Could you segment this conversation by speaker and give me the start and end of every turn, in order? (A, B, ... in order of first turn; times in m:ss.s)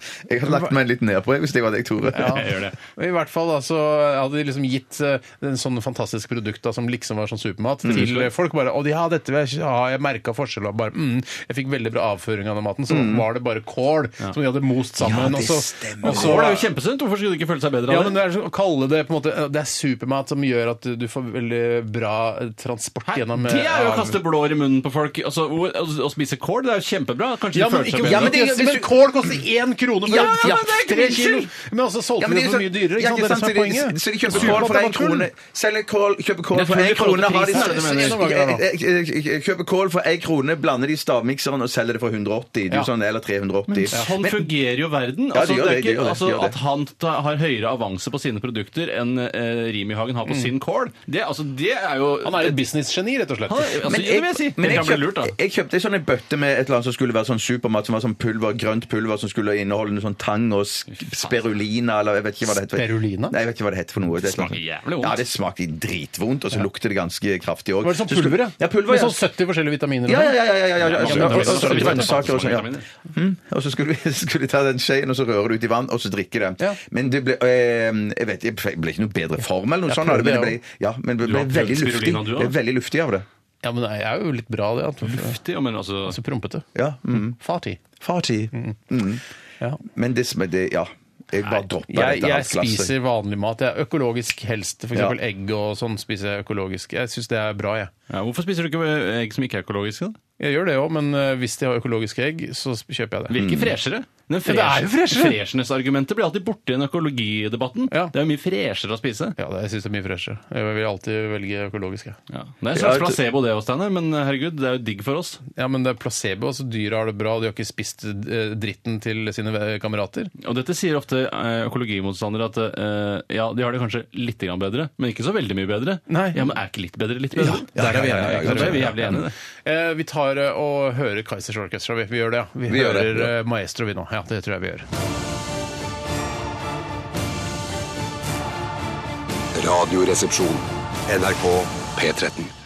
0:00.3-0:02.4 A
0:02.1-0:16.7 B
0:02.2-0:02.7 C
0:07.8-0:08.1 A
0:07.9-0:08.3 C
0:12.9-0:13.2 A
0:15.0-0:16.4 A
0:16.0-0:18.2 C
0:17.9-0:24.2 B
0:23.1-0:28.4 C
0:27.5-0:35.3 B
0:28.0-0:28.9 A
0:30.1-0:31.2 A
0:30.1-0:31.4 C
0:32.2-0:44.5 A
0:34.3-0:34.6 C
0:36.5-0:38.2 C
0:37.5-0:38.6 B
0:43.7-0:52.6 C
0:45.3-0:46.5 A
0:52.2-0:53.8 B
0:53.5-0:55.4 C
0:53.8-1:09.2 A
1:00.9-1:01.4 C
1:02.5-1:03.4 B
1:04.2-1:05.2 C
1:07.8-1:10.4 B
1:10.0-1:23.2 A
1:10.8-1:12.9 C
1:11.0-1:12.1 B
1:19.9-1:20.6 B
1:21.2-1:22.5 C
1:23.6-1:25.4 B
1:25.0-1:26.2 C
1:26.1-1:27.8 B
1:26.7-1:27.4 A
1:28.0-1:29.2 A
1:29.9-1:32.9 A
1:31.9-1:37.9 B
1:38.1-1:40.2 C
1:40.4-1:43.4 B
1:43.3-1:49.4 C
1:43.3-1:43.8 A
1:44.4-1:45.4 B
1:49.4-1:52.2 B
1:52.3-1:55.4 C
1:52.7-1:53.2 A
1:55.5-2:00.3 B
2:00.4-2:09.3 C
2:06.1-2:06.5 B
2:07.4-2:14.8 B
2:07.5-2:09.2 A
2:12.7-2:13.3 A
2:19.5-2:22.5 D